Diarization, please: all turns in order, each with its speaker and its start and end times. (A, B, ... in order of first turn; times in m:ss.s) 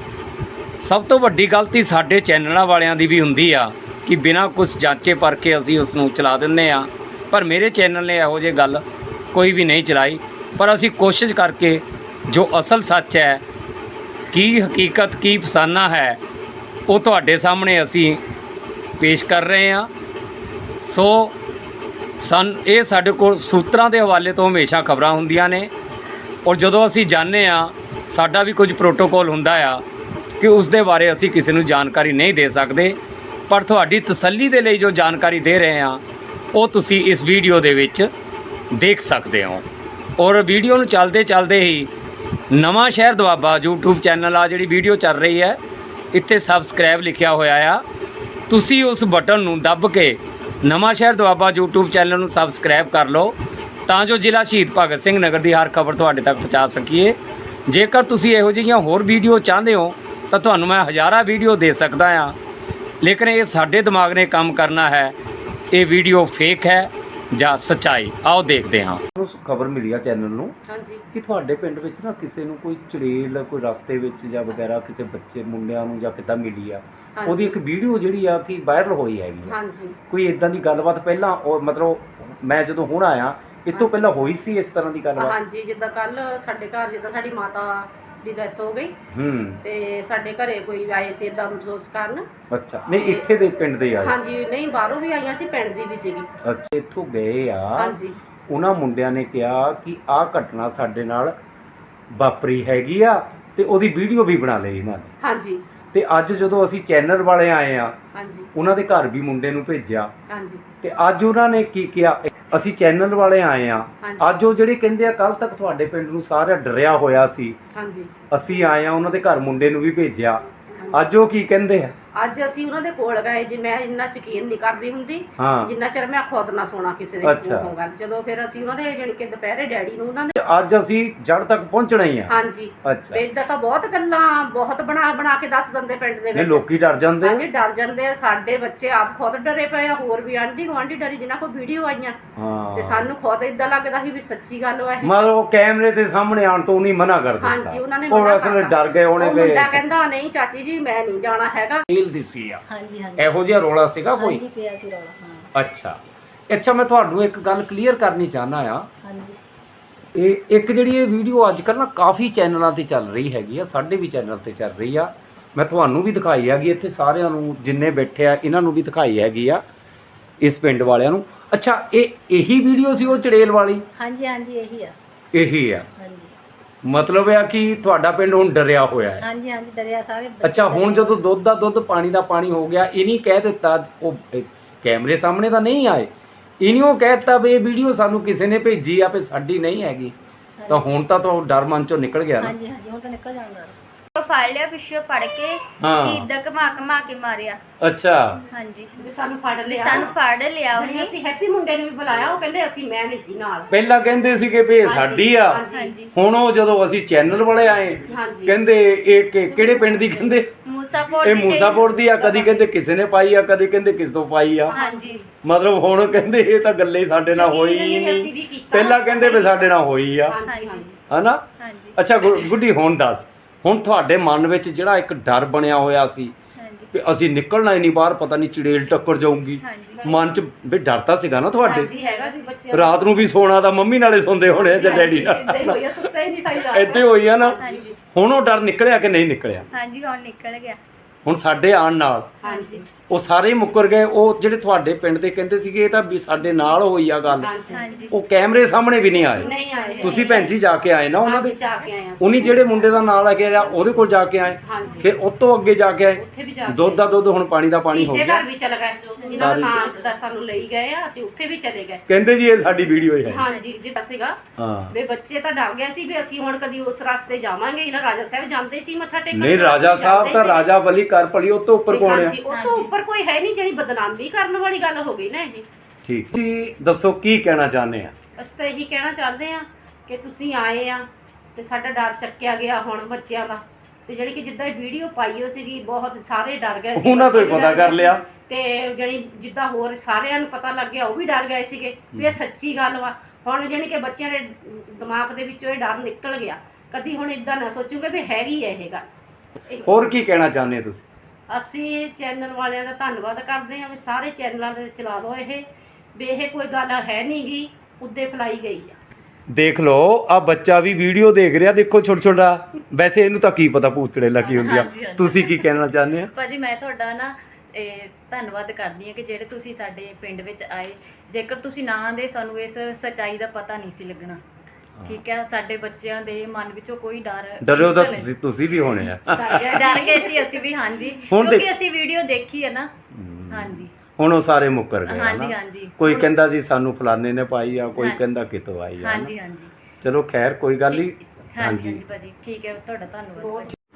0:00.8-0:13.4 A
0:14.3-0:16.2 A
0:16.9-0:18.2 A
0:19.0-0:19.9 A
0:20.9-0:21.4 A
0:22.2-0:25.7 A
0:26.4-0:29.8 A
0:30.4-0:33.0 A
0:33.5-0:36.0 A
0:36.5-0:38.1 A
0:38.7-0:39.7 A
0:40.2-0:41.9 A
0:42.5-0:45.6 A
0:46.1-0:47.8 A
0:48.5-0:53.4 A
0:53.9-0:57.2 A
0:57.7-1:02.3 A
1:03.0-1:05.2 A
1:05.7-1:10.6 A
1:10.7-1:11.0 B
1:11.1-1:19.5 A
1:17.2-1:17.6 B
1:19.5-1:20.0 B
1:20.1-1:25.4 A
1:25.2-1:29.0 B
1:29.1-1:29.6 A
1:29.6-1:32.3 B
1:32.5-1:34.2 A
1:34.0-1:36.3 B
1:36.4-1:38.0 A
1:37.8-1:38.2 B
1:38.5-1:41.4 A
1:42.1-1:45.1 A
1:45.2-1:45.6 B
1:45.9-1:48.0 A
1:48.2-1:48.5 B
1:48.6-1:50.1 A
1:50.3-1:50.6 B
1:50.8-1:57.6 A
1:57.8-1:58.1 B
1:58.3-2:01.9 A
2:02.2-2:10.4 B
2:05.4-2:05.7 A
2:07.2-2:07.7 A
2:10.4-2:13.2 A
2:12.3-2:16.7 B
2:16.3-2:17.4 A
2:17.2-2:22.2 B
2:22.4-2:23.1 A
2:22.8-2:25.1 B
2:25.0-2:29.8 A
2:27.4-2:31.8 B
2:31.9-2:32.6 A
2:32.7-2:33.3 C
2:33.2-2:34.4 A
2:34.2-2:35.5 C
2:35.5-2:36.0 A
2:36.5-2:38.9 A
2:39.0-2:39.4 C
2:40.1-2:49.6 A
2:50.4-2:53.9 A
2:54.0-2:55.0 C
2:55.3-2:55.9 A
2:56.0-2:56.3 C
2:56.8-2:59.2 A
2:59.2-3:01.2 C
3:00.4-3:06.1 A
3:06.6-3:10.1 A
3:10.6-3:10.8 C
3:10.7-3:12.6 A
3:12.4-3:13.8 C
3:14.2-3:17.6 D
3:15.8-3:16.3 A
3:17.8-3:18.4 A
3:18.5-3:19.1 D
3:19.0-3:20.2 B
3:19.7-3:21.1 D
3:20.7-3:23.7 B
3:23.7-3:30.5 A
3:24.8-3:26.1 B
3:25.7-3:26.1 D
3:28.1-3:28.6 B
3:29.6-3:30.2 B
3:30.6-3:32.1 D
3:31.2-3:34.8 A
3:32.2-3:32.4 B
3:34.7-3:35.2 B
3:34.7-3:35.3 D
3:35.4-3:40.4 A
3:37.3-3:39.8 B
3:40.3-3:41.0 B
3:40.4-3:40.9 D
3:41.1-3:41.4 A
3:41.6-3:42.4 D
3:42.0-3:46.3 A
3:46.6-3:46.9 D
3:46.9-3:51.9 A
3:49.6-3:50.0 D
3:50.0-3:50.3 B
3:51.6-3:53.1 B
3:51.7-3:52.5 D
3:52.7-3:55.8 A
3:54.6-3:58.0 B
3:56.7-3:57.6 A
3:57.6-3:57.9 D
3:58.1-3:59.7 A
3:59.7-4:00.8 D
4:01.2-4:02.3 A
4:02.4-4:02.9 B
4:02.4-4:02.8 D
4:03.1-4:07.5 A
4:07.4-4:07.9 B
4:07.7-4:08.1 D
4:08.1-4:11.6 A
4:09.2-4:10.6 B
4:09.5-4:10.4 D
4:11.2-4:13.9 B
4:12.2-4:18.4 A
4:14.6-4:15.1 B
4:16.2-4:17.1 B
4:17.9-4:22.0 B
4:19.3-4:19.9 A
4:22.1-4:23.4 A
4:23.3-4:24.4 B
4:24.6-4:24.9 A
4:24.9-4:30.7 B
4:29.3-4:32.4 A
4:31.9-4:35.7 B
4:32.5-4:32.9 D
4:36.0-4:38.1 A
4:38.4-4:59.1 B
4:47.0-4:48.2 A
4:59.7-5:00.1 B
4:59.8-5:01.0 A
5:01.5-5:09.0 B
5:09.5-5:16.3 A
5:14.4-5:15.5 E
5:16.3-5:24.4 E
5:25.0-5:28.3 E
5:27.6-5:29.8 A
5:27.7-5:28.0 D
5:29.3-5:30.6 B
5:29.7-5:32.9 E
5:31.3-5:31.7 A
5:33.1-5:39.3 A
5:33.5-5:33.9 E
5:35.1-5:36.0 E
5:39.0-5:39.7 E
5:40.0-5:42.0 A
5:41.5-5:43.7 E
5:43.4-5:43.7 B